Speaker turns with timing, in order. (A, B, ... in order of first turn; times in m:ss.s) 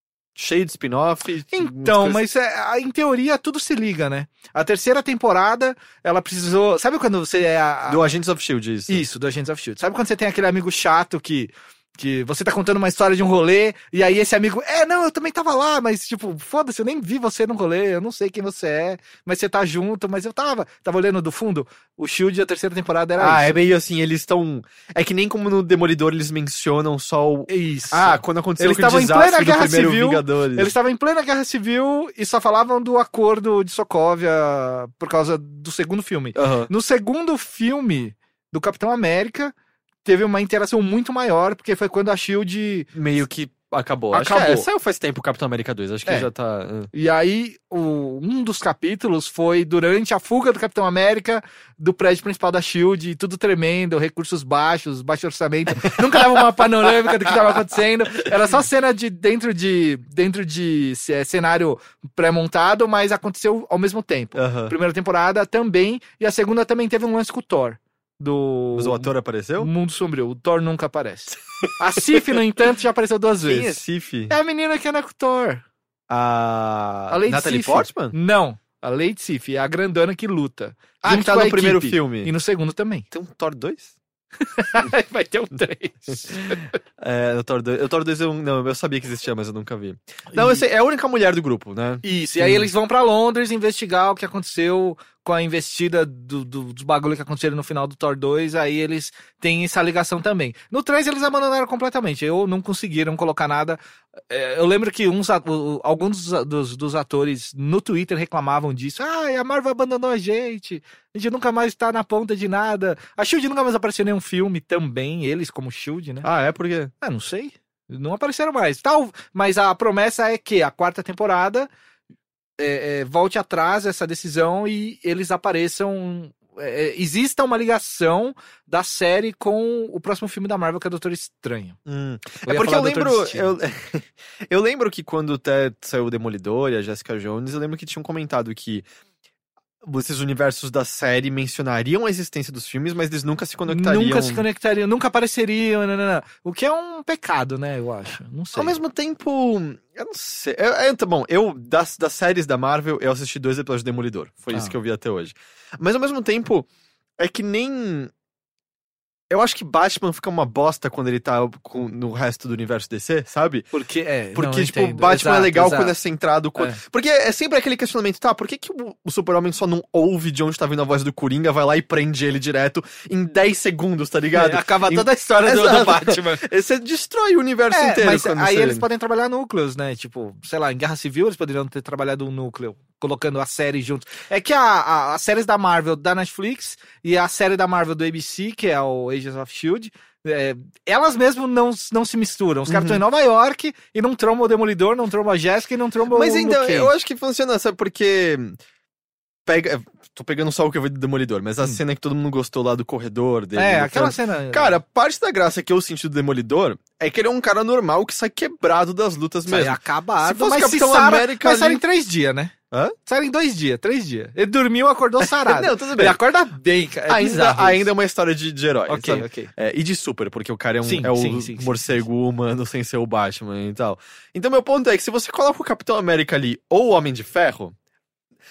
0:00.4-0:02.2 A
0:01.5-0:08.1 B
0:07.9-0:09.0 A
0:08.9-0:23.6 B
0:23.2-0:30.8 A
0:27.5-0:42.9 B
0:36.4-0:36.7 A
0:42.9-0:46.9 A
0:44.1-0:44.7 B
0:46.9-1:15.6 B
0:55.9-0:56.2 A
1:04.4-1:04.8 A
1:08.8-1:09.7 A
1:13.5-1:14.4 A
1:16.1-1:18.2 A
1:17.1-1:23.1 B
1:21.0-1:22.3 A
1:23.1-1:23.9 A
1:24.4-1:26.7 B
1:26.5-1:32.7 A
1:30.3-1:30.6 B
1:32.0-1:56.3 B
1:56.2-1:56.9 A
1:57.0-2:01.7 B
2:02.6-2:11.8 B
2:11.9-2:18.9 A
2:12.4-2:13.5 B
2:19.8-2:24.4 A
2:23.7-2:28.8 B
2:28.6-2:38.1 A
2:34.5-2:34.8 B
2:39.3-2:43.7 A
2:43.7-2:46.0 B
2:44.4-2:58.9 A
2:54.3-2:56.4 B
2:57.7-3:16.9 B
3:12.7-3:13.0 A
3:16.1-3:18.6 A
3:19.5-3:31.8 A
3:23.6-3:24.8 B
3:29.5-3:32.5 B
3:32.7-3:33.0 A
3:33.0-3:37.9 B
3:35.2-3:36.2 A
3:37.1-3:47.8 A
3:38.9-3:39.5 B
3:40.8-3:42.0 B